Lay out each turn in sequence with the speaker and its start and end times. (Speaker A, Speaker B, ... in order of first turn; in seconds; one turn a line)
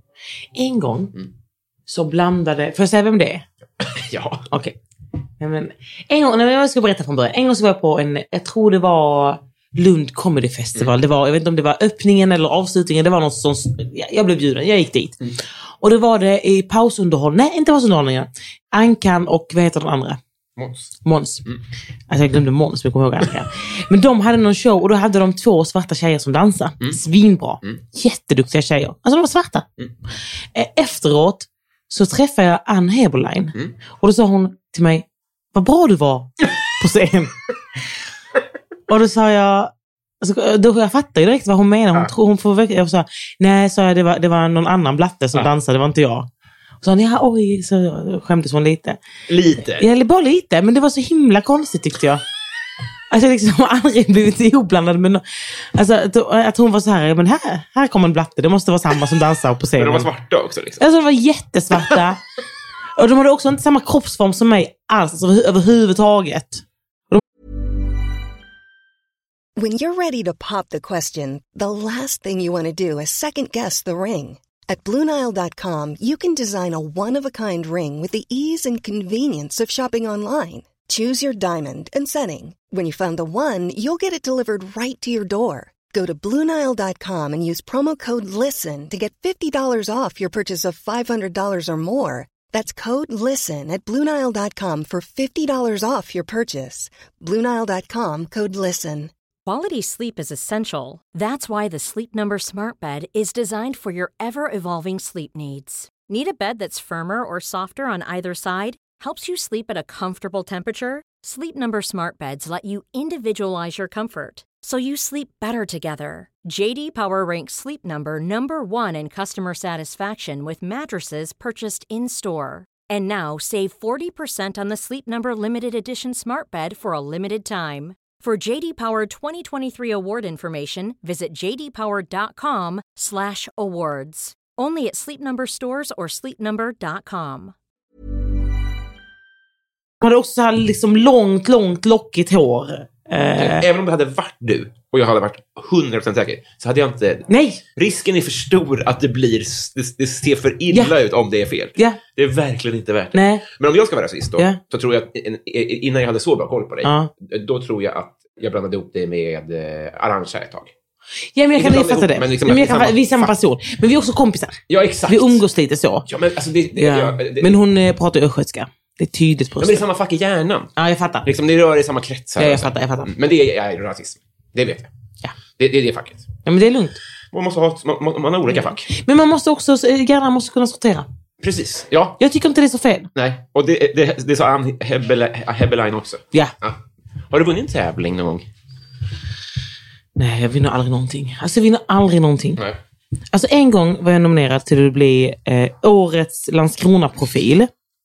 Speaker A: 0.6-1.1
Speaker A: 1.9-3.4
Speaker B: 3.8-4.5
Speaker A: 4.5-4.8
Speaker A: 5.4-15.2
Speaker A: 15.8-20.2
Speaker B: 20.6-20.9
Speaker A: 21.0-21.4
Speaker A: 22.1-29.7
Speaker A: 30.6-37.4
Speaker A: 38.9-46.3
Speaker A: 46.8-49.0
Speaker B: 49.3-49.9
Speaker A: 49.8-52.2
Speaker A: 53.1-60.1
Speaker B: 59.8-60.8
Speaker A: 60.8-62.2
Speaker A: 63.0-67.2
Speaker C: 69.6-99.1
Speaker D: 99.5-137.6
Speaker A: 140.0-143.7
Speaker B: 143.4-160.7
Speaker A: 147.3-147.6
Speaker A: 153.1-153.4
Speaker A: 156.8-157.1
Speaker A: 161.3-166.1
Speaker B: 161.6-163.3
Speaker B: 164.7-165.4
Speaker B: 166.1-167.5
Speaker A: 166.8-169.8
Speaker B: 169.6-170.7
Speaker A: 170.8-171.3
Speaker B: 171.2-174.9
Speaker A: 172.4-173.1
Speaker B: 175.6-176.3
Speaker A: 176.5-177.0
Speaker B: 177.3-178.9
Speaker A: 178.5-181.1
Speaker B: 181.4-182.2
Speaker A: 182.2-183.1
Speaker B: 183.2-186.8
Speaker B: 187.3-188.5
Speaker A: 190.2-192.6
Speaker A: 193.3-197.7